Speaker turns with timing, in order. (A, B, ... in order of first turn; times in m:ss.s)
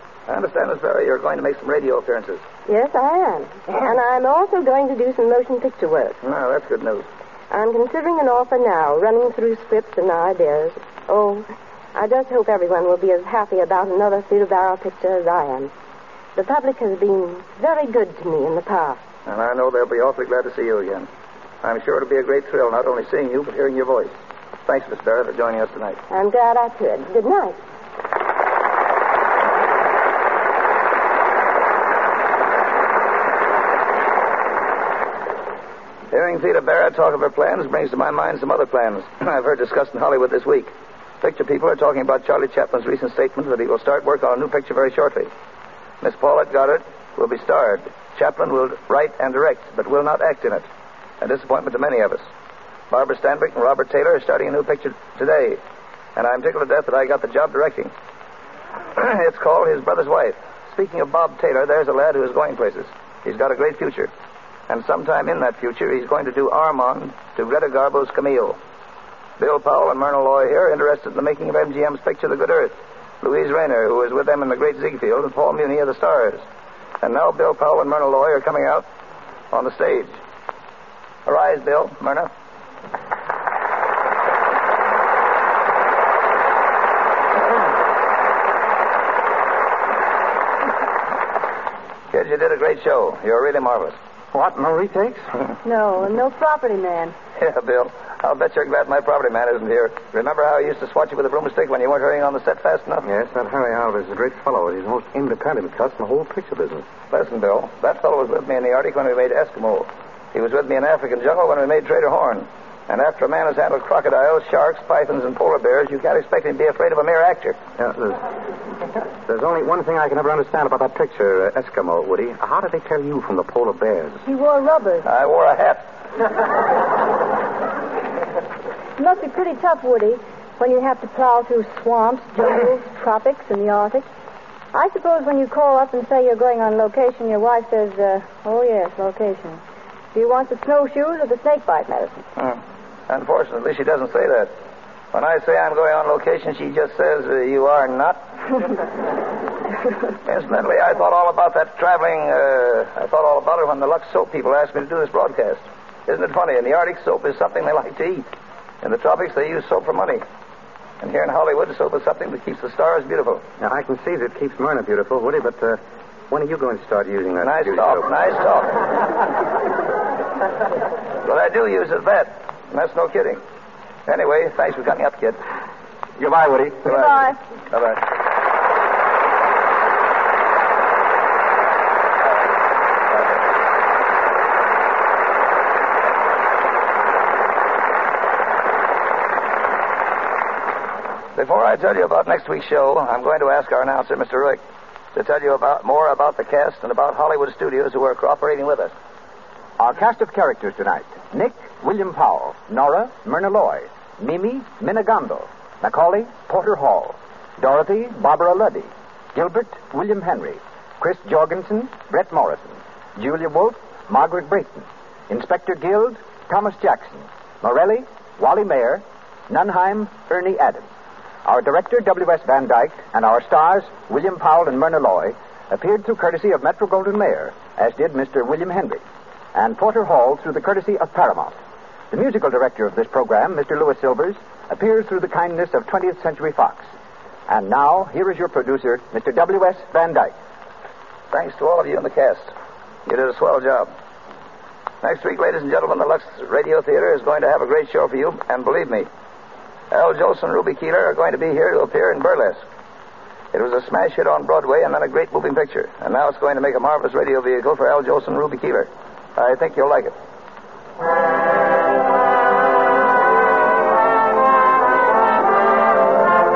0:00.3-0:02.4 A
0:02.6-0:06.2 B
0:06.2-0:07.0 A
0:07.5-0:15.7 B
0:16.3-0:19.0 B
0:19.2-0:21.1 A
0:21.6-0:24.1 A
0:24.6-0:26.0 A
0:26.1-0:27.6 B
0:36.1-0:45.3 A
0:46.0-0:50.6 A
0:51.2-0:52.3 A
0:52.9-0:55.6 A
0:56.2-0:57.9 A
0:59.0-1:04.1 A
1:04.7-1:08.6 A
1:09.4-1:16.4 A
1:17.0-1:18.8 A
1:19.5-1:20.2 A
1:21.2-1:22.3 A
1:32.1-1:34.0 A
1:34.3-1:35.3 C
1:35.6-1:37.1 D
1:37.4-1:43.0 A
1:43.0-1:46.9 C
1:47.1-1:57.6 A
1:57.8-1:58.2 C
1:59.2-2:04.2 C
2:04.2-2:05.0 D
2:05.0-2:05.8 A
2:09.0-2:14.1 D
2:14.7-2:19.6 D
2:20.1-2:22.2 D
2:22.4-2:24.5 A
2:25.1-2:28.5 A
2:30.2-2:38.3 A
2:38.8-2:40.2 A
2:41.0-2:43.4 A
2:43.6-2:48.1 C
2:47.4-2:48.8 A
2:51.2-2:53.4 A
2:54.1-2:55.4 A
2:56.2-2:57.0 C
2:56.8-2:58.0 A
3:11.4-3:14.6 A
3:15.1-3:18.9 A
3:19.8-3:40.9 E
3:41.4-3:49.0 E
3:49.5-3:51.6 E
3:52.1-3:56.9 E
3:57.5-4:00.3 E
4:01.3-4:02.5 A
4:03.1-4:03.9 A
4:05.0-4:09.1 A
4:09.9-4:12.6 A
4:13.5-4:20.1 A